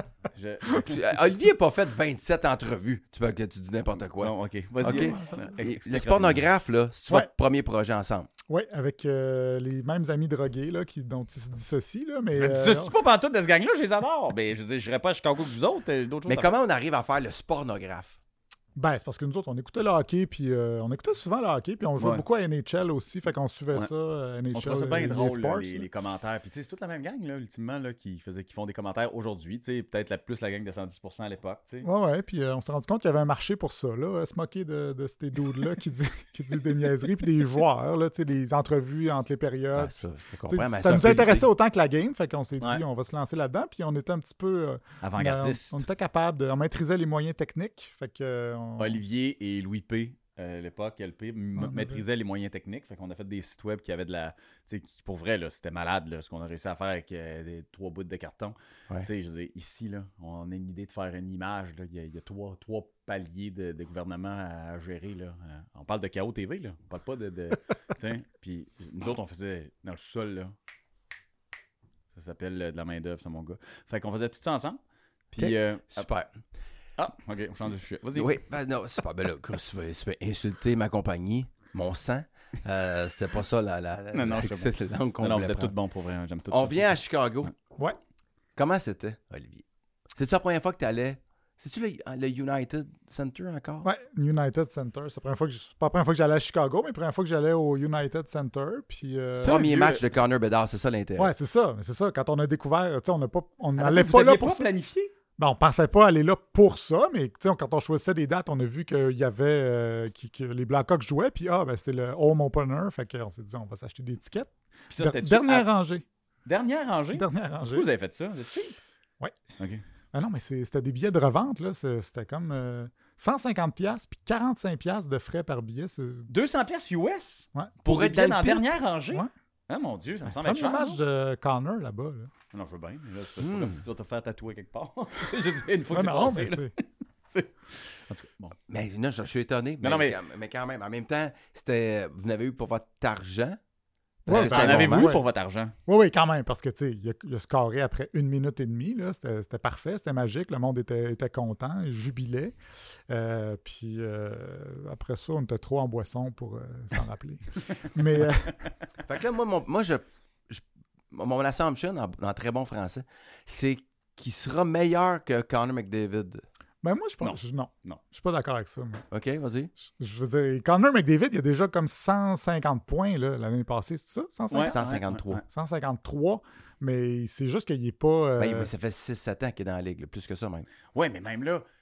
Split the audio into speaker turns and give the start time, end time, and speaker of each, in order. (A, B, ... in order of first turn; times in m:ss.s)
0:00.4-0:01.1 A
0:00.8-0:08.3 B
0:04.2-0:06.5 A
0:04.8-0:05.6 C
0:08.5-0:12.9 C
0:12.4-0:16.5 A
0:16.3-0:18.2 B
0:18.8-0:25.9 C
0:22.0-0:22.2 A
0:24.5-0:31.9 A
0:31.8-0:40.0 C
0:39.8-0:41.5 B
0:40.5-0:49.0 C
0:45.0-0:45.8 A
0:48.8-1:10.5 A
0:51.6-0:52.0 C
1:12.1-1:14.8 A
1:15.3-1:16.1 A
1:15.4-1:16.4 B
1:17.0-1:18.4 A
1:18.1-1:25.7 B
1:24.1-1:27.5 A
1:26.5-1:27.5 B
1:28.6-1:33.9 B
1:33.8-1:39.6 C
1:39.4-1:40.2 A
1:39.4-1:41.3 B
1:41.2-1:44.7 C
1:43.8-1:45.1 A
1:45.4-1:56.0 C
1:54.9-1:55.7 A
1:56.5-1:58.8 A
1:57.2-1:57.9 C
1:59.6-1:59.8 A
2:00.1-2:06.3 C
2:06.3-2:11.0 A
2:07.8-2:08.7 B
2:10.3-2:12.3 C
2:12.5-2:18.6 A
2:13.4-2:13.8 B
2:15.9-2:16.7 C
2:18.7-2:23.6 B
2:19.8-2:20.2 A
2:24.3-2:25.2 C
2:24.3-2:25.2 B
2:24.3-2:25.8 A
2:25.9-2:32.6 C
2:33.1-2:38.6 C
2:39.1-2:46.4 B
2:46.8-2:49.0 C
2:47.2-2:48.0 A
2:49.1-2:49.7 B
2:49.9-2:54.8 C
2:54.5-2:55.4 A
2:54.6-2:55.4 B
2:55.5-2:58.7 C
2:58.4-3:00.7 B
3:00.9-3:01.6 A